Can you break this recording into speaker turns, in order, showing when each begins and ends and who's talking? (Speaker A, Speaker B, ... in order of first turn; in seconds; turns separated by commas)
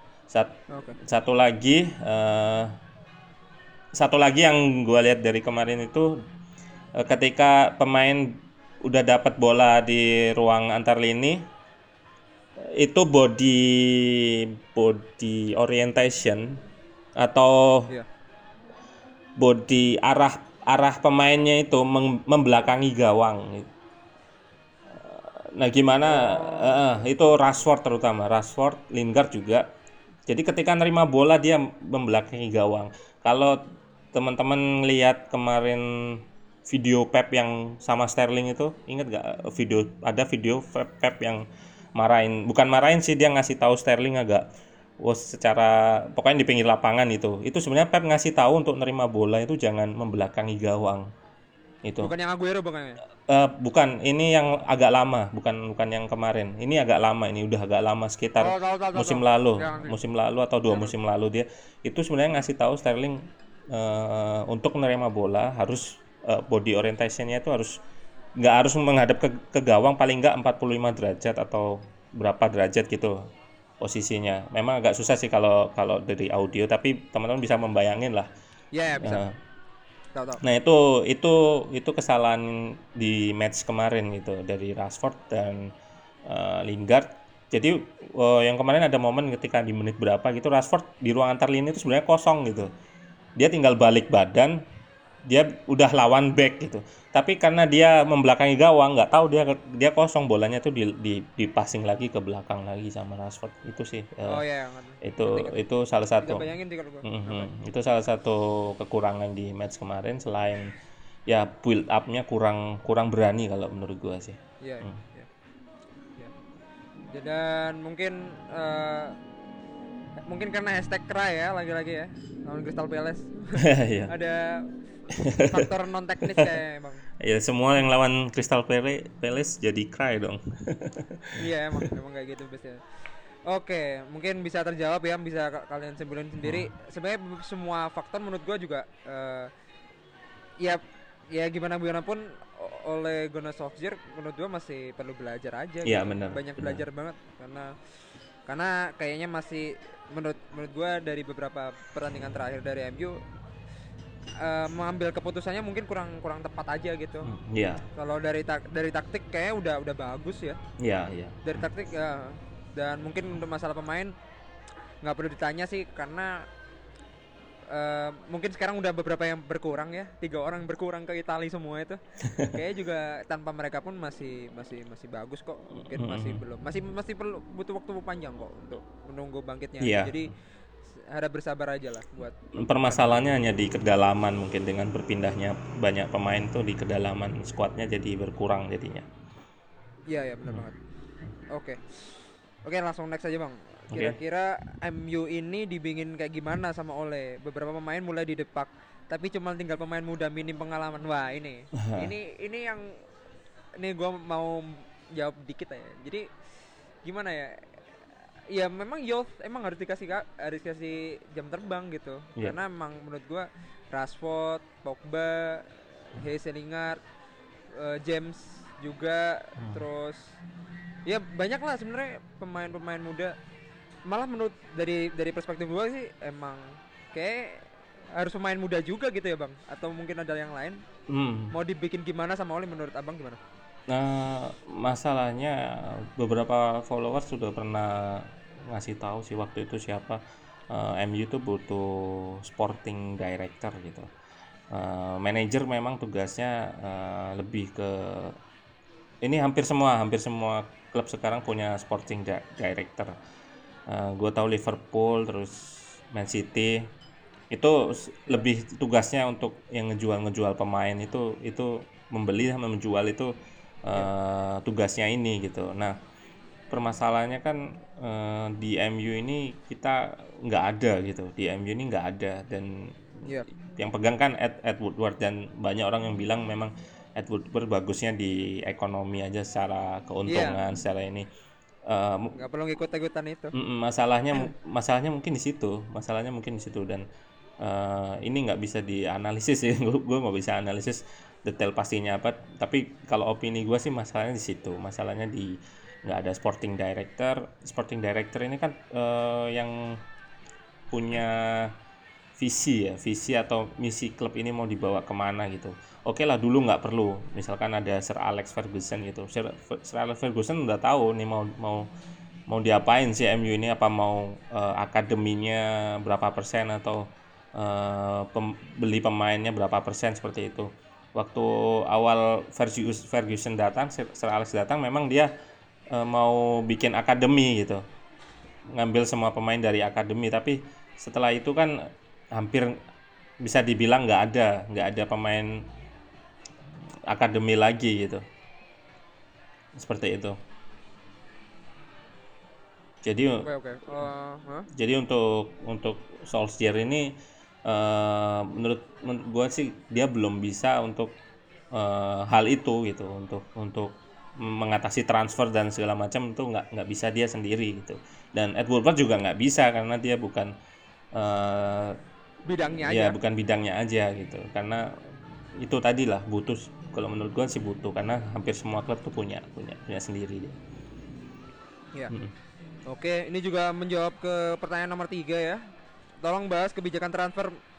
Speaker A: 0.3-2.7, Speaker B: 0.7-1.0, Speaker A: 4.0-6.2, Speaker A: 7.0-11.4, Speaker A: 12.6-16.6, Speaker A: 17.2-17.9, Speaker A: 19.4-23.7, Speaker A: 24.9-29.6, Speaker B: 26.0-27.0, Speaker A: 30.3-33.6, Speaker A: 34.1-41.4, Speaker A: 42.0-44.5, Speaker A: 45.0-51.1, Speaker A: 51.9-52.1, Speaker B: 52.0-53.0, Speaker A: 53.3-67.8, Speaker B: 58.4-60.0, Speaker A: 68.4-73.2, Speaker A: 73.8-78.3, Speaker B: 78.7-79.2, Speaker A: 79.0-79.3, Speaker B: 80.2-80.4, Speaker A: 80.4-85.7, Speaker A: 86.3-92.7, Speaker A: 93.4-94.6, Speaker A: 95.3-104.4, Speaker B: 104.2-105.6, Speaker A: 105.0-106.5, Speaker B: 106.2-107.5, Speaker A: 107.0-110.8, Speaker A: 111.3-115.0, Speaker B: 114.6-115.3, Speaker B: 117.1-119.2, Speaker B: 120.3-124.7, Speaker A: 123.6-124.1, Speaker A: 125.1-125.7, Speaker B: 125.5-127.0, Speaker A: 127.2-131.8, Speaker B: 131.4-132.8, Speaker B: 133.5-139.5, Speaker A: 136.4-136.7, Speaker B: 140.6-147.7, Speaker A: 145.8-146.8, Speaker B: 148.5-153.2, Speaker B: 154.4-157.3, Speaker A: 157.2-157.8, Speaker B: 157.9-160.6, Speaker A: 160.8-161.6, Speaker B: 161.4-164.1, Speaker B: 165.0-166.4, Speaker B: 167.7-180.3, Speaker A: 172.3-172.5, Speaker A: 175.9-176.4, Speaker A: 179.8-180.2, Speaker B: 181.1-183.3, Speaker A: 182.6-189.1, Speaker B: 190.1-190.8, Speaker B: 191.5-191.8, Speaker B: 192.7-202.9, Speaker A: 201.8-202.1, Speaker B: 203.8-206.3, Speaker B: 207.0-207.6, Speaker B: 208.5-217.0, Speaker B: 217.7-220.3, Speaker A: 219.6-219.8, Speaker B: 221.1-223.3, Speaker B: 224.1-230.8, Speaker A: 231.1-231.5, Speaker B: 231.5-233.4, Speaker A: 233.9-244.1, Speaker A: 244.7-248.4, Speaker A: 249.2-253.2, Speaker A: 253.9-256.9, Speaker A: 257.5-263.3, Speaker A: 263.9-265.9, Speaker A: 266.7-273.2, Speaker A: 273.8-281.3, Speaker B: 280.3-280.6, Speaker A: 281.9-282.3, Speaker B: 282.4-283.5, Speaker A: 283.5-287.0, Speaker A: 287.6-300.0, Speaker A: 300.9-301.7, Speaker A: 302.4-311.9, Speaker A: 312.5-317.0, Speaker A: 317.6-325.3, Speaker A: 325.9-327.8, Speaker A: 328.7-331.7, Speaker A: 332.3-332.7, Speaker A: 333.4-335.6, Speaker A: 337.1-338.2, Speaker A: 339.8-340.4, Speaker A: 343.1-343.5, Speaker B: 343.4-344.7, Speaker A: 344.7-347.1, Speaker A: 347.7-351.1, Speaker A: 351.7-360.5, Speaker A: 361.1-361.9, Speaker B: 362.5-363.2, Speaker A: 362.9-364.9, Speaker A: 365.6-370.6, Speaker B: 372.9-375.6, Speaker B: 376.2-377.6